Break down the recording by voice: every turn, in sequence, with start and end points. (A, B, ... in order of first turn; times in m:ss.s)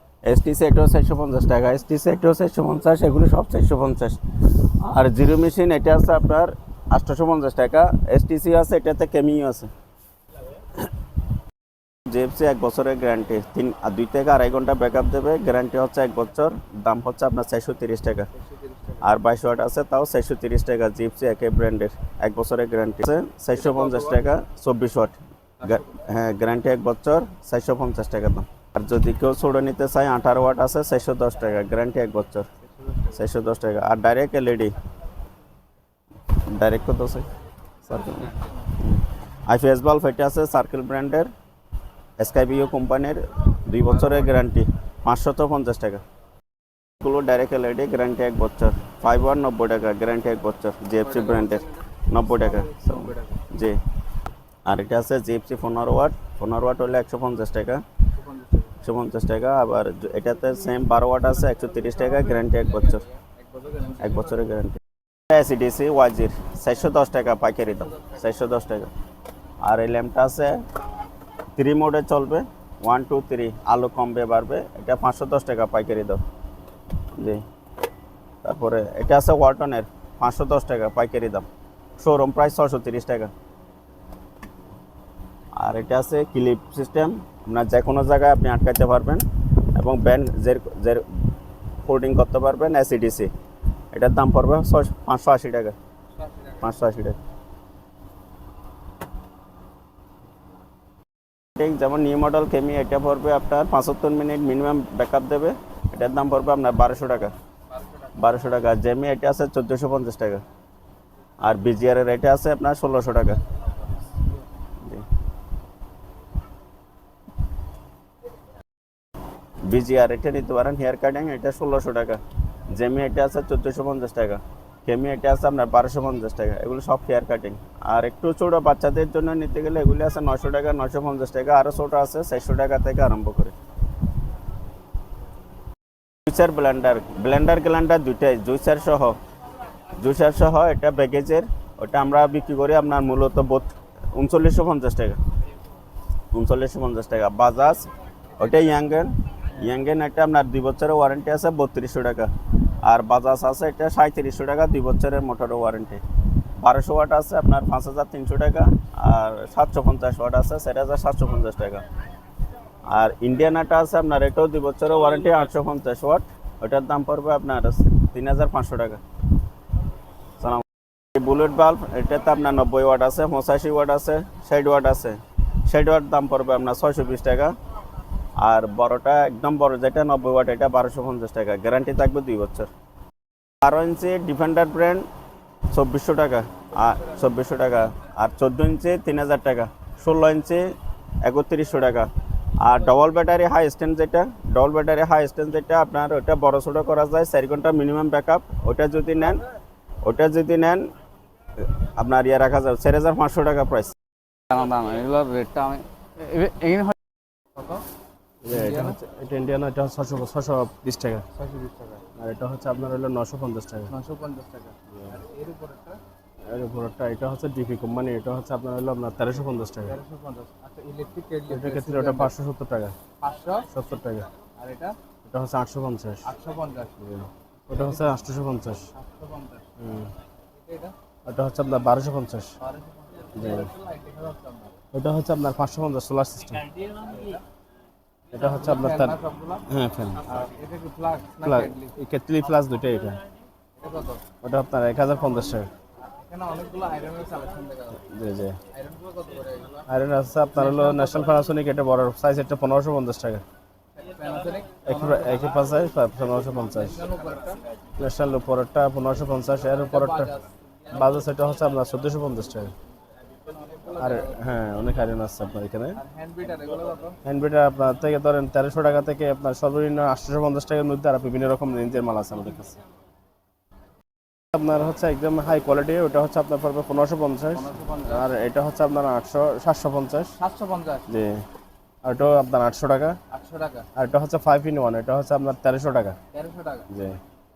0:00.2-0:09.7 A
0:12.1-0:18.3 A
0:18.4-0:19.1 B
0:19.0-0:32.5 A
0:23.5-0:24.2 B
0:32.7-0:33.2 B
0:33.1-0:34.8 A
0:36.4-0:37.3 A
0:37.9-0:41.3 A
0:42.2-0:46.0 A
0:43.8-0:44.4 B
0:47.0-0:53.8 A
0:51.0-0:53.4 B
0:54.7-0:57.8 A
0:58.1-0:58.8 B
0:58.8-1:03.0 A
1:01.6-1:04.3 B
1:04.0-1:08.9 A
1:07.9-1:08.2 B
1:09.6-1:10.6 A
1:11.6-1:16.2 A
1:17.2-1:17.4 A
1:18.4-1:21.5 A
1:22.0-1:23.3 A
1:25.6-1:31.3 A
1:31.8-1:33.3 A
1:33.9-1:35.8 A
1:36.2-1:36.7 B
1:36.6-1:37.2 A
1:41.6-1:47.4 A
1:47.7-1:48.3 B
1:48.2-1:50.4 A
1:51.4-1:53.4 A
1:54.0-1:54.4 B
1:59.6-2:13.5 A
2:16.3-2:19.2 A
2:19.9-2:25.2 A
2:26.3-2:36.0 A
2:36.6-2:41.9 A
2:42.9-2:49.0 A
2:50.4-2:57.6 A
2:58.4-3:02.7 A
3:03.6-3:05.1 A
3:05.7-3:19.4 A
3:20.0-3:20.9 A
3:21.6-3:23.9 A
3:24.5-3:27.0 C
3:27.6-3:27.8 B
3:28.4-3:31.2 D
3:28.5-3:29.0 B
3:31.4-3:32.0 B
3:32.2-3:33.9 D
3:33.9-3:36.0 B
3:36.5-3:40.0 D
3:39.8-3:42.3 B
3:41.5-3:43.0 D
3:43.2-3:43.7 B
3:43.7-3:44.3 D
3:44.6-3:45.0 B
3:45.2-3:46.2 D
3:46.2-3:47.0 B
3:47.0-3:48.9 D
3:47.7-3:48.1 B
3:48.9-3:49.7 B
3:49.8-3:50.1 D
3:50.5-3:51.0 B
3:51.3-3:52.6 D
3:52.6-3:54.8 B
3:53.4-3:53.7 D
3:54.9-3:56.7 D
3:56.8-3:57.4 B
3:58.3-4:00.2 D
3:58.6-3:59.6 B
4:00.3-4:01.9 B
4:01.4-4:03.2 D
4:03.8-4:04.2 B
4:04.4-4:05.7 D
4:06.0-4:08.0 B
4:08.0-4:08.6 D
4:08.7-4:09.9 B
4:09.9-4:13.4 D
4:10.4-4:11.4 B
4:14.0-4:15.5 B
4:14.8-4:17.0 D
4:16.7-4:17.6 B
4:18.0-4:20.3 D
4:19.6-4:21.0 B
4:20.9-4:22.7 D
4:23.3-4:24.6 B
4:24.0-4:26.0 D
4:26.0-4:27.2 B
4:27.2-4:32.8 D
4:34.5-4:40.4 D
4:37.5-4:38.3 B
4:40.4-4:41.1 B
4:41.1-4:41.5 D
4:42.0-4:43.2 D
4:43.3-4:43.9 B
4:44.0-4:46.2 D
4:46.3-4:46.9 B
4:46.9-4:47.2 D